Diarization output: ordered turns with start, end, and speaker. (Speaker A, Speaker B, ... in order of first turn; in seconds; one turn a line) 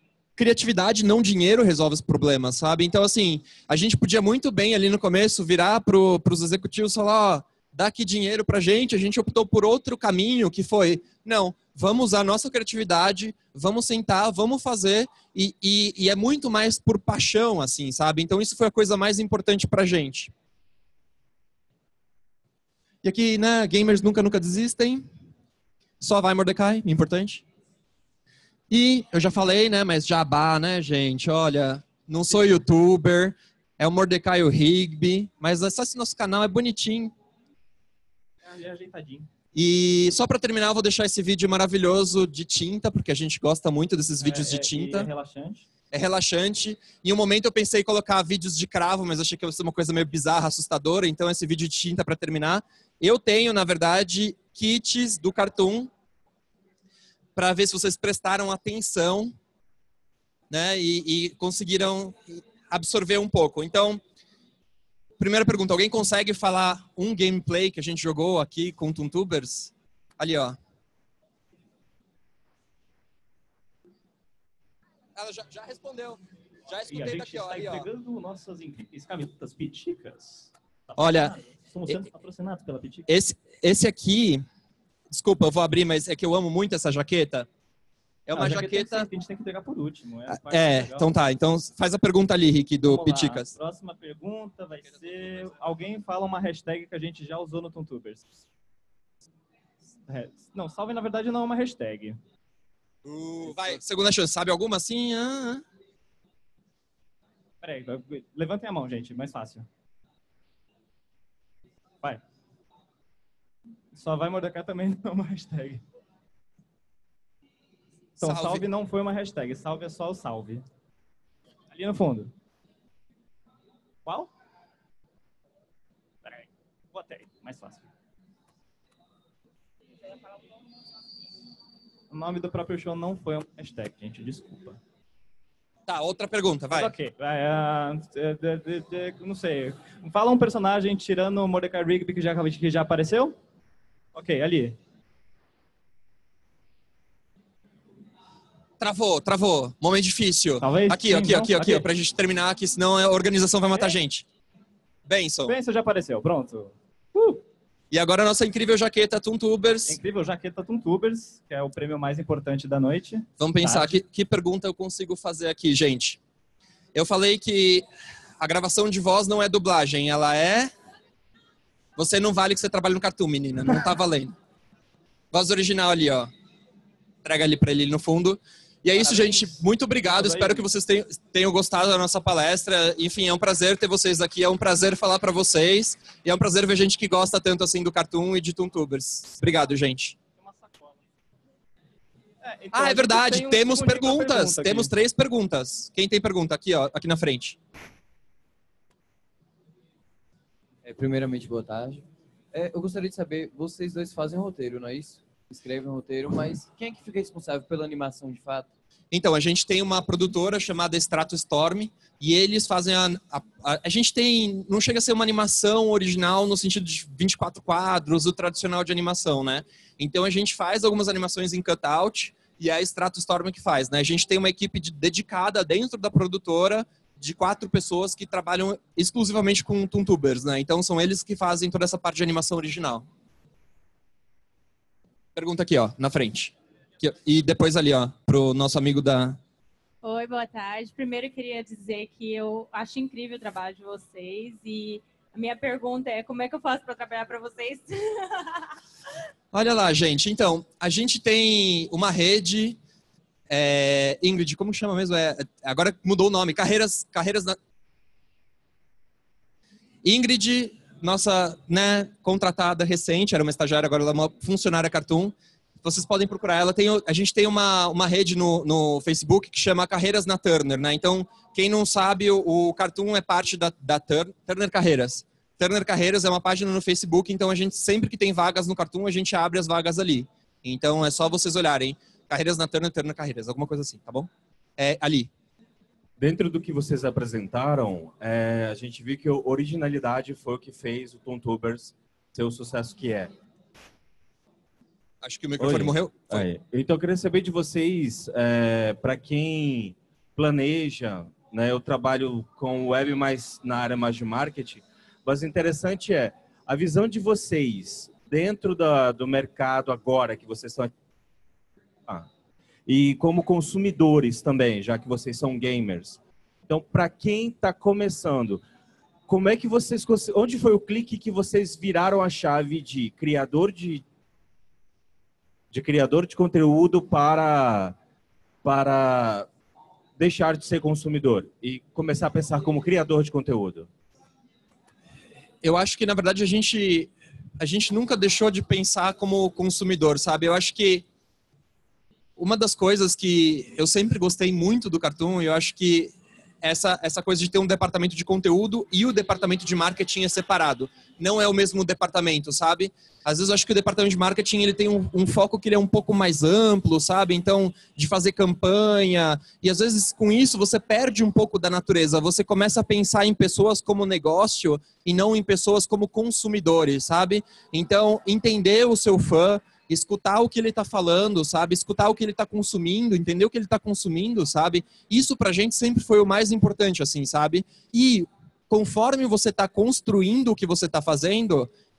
Speaker A: 0.4-20.3
Speaker A: 23.0-25.1
Speaker A: 26.0-27.4
Speaker A: 28.7-37.1
Speaker B: 38.4-39.3
Speaker A: 39.5-45.1
Speaker B: 44.2-45.6
Speaker A: 45.9-55.9
Speaker A: 57.4-59.3
Speaker A: 60.5-64.0
Speaker A: 65.2-70.6
Speaker A: 75.2-77.9
Speaker B: 76.9-83.1
Speaker A: 81.0-81.3
Speaker A: 83.1-84.4
Speaker A: 85.1-87.5
Speaker A: 88.2-89.1
Speaker B: 88.3-91.1
Speaker A: 90.3-93.5
Speaker B: 92.8-98.4
Speaker A: 94.9-95.4
Speaker B: 100.1-102.2
Speaker A: 103.0-105.6
Speaker B: 107.6-109.7
Speaker B: 113.9-115.8
Speaker A: 118.2-118.7
Speaker B: 118.2-120.6
Speaker B: 121.7-122.3
Speaker B: 124.0-124.3
Speaker B: 126.2-127.9
Speaker B: 132.1-134.8
Speaker A: 135.9-136.9
Speaker B: 136.7-143.3
Speaker B: 144.1-144.8
Speaker A: 148.8-154.2
Speaker B: 150.6-151.9
Speaker A: 155.0-155.6
Speaker B: 155.4-157.4
Speaker A: 157.9-160.0
Speaker B: 159.8-164.0
Speaker A: 163.4-166.2
Speaker A: 166.9-167.8
Speaker A: 168.4-170.7
Speaker A: 171.9-174.3
Speaker A: 175.3-176.3
Speaker A: 177.2-190.2
Speaker B: 178.9-180.7
Speaker B: 190.3-191.0
Speaker B: 192.4-194.9
Speaker A: 192.7-197.6
Speaker C: 200.8-208.7
Speaker A: 209.1-233.1
Speaker A: 235.3-239.4
Speaker D: 240.0-248.7
Speaker A: 249.5-252.8
Speaker A: 253.5-257.6
Speaker A: 260.0-285.3
Speaker E: 286.2-293.3
Speaker A: 295.2-296.5
Speaker E: 295.6-310.9
Speaker E: 312.9-316.2
Speaker E: 316.7-318.6
Speaker E: 319.3-324.0
Speaker E: 325.7-328.0
Speaker E: 328.6-329.5
Speaker E: 330.2-333.9
Speaker A: 335.6-341.0
Speaker A: 342.4-381.7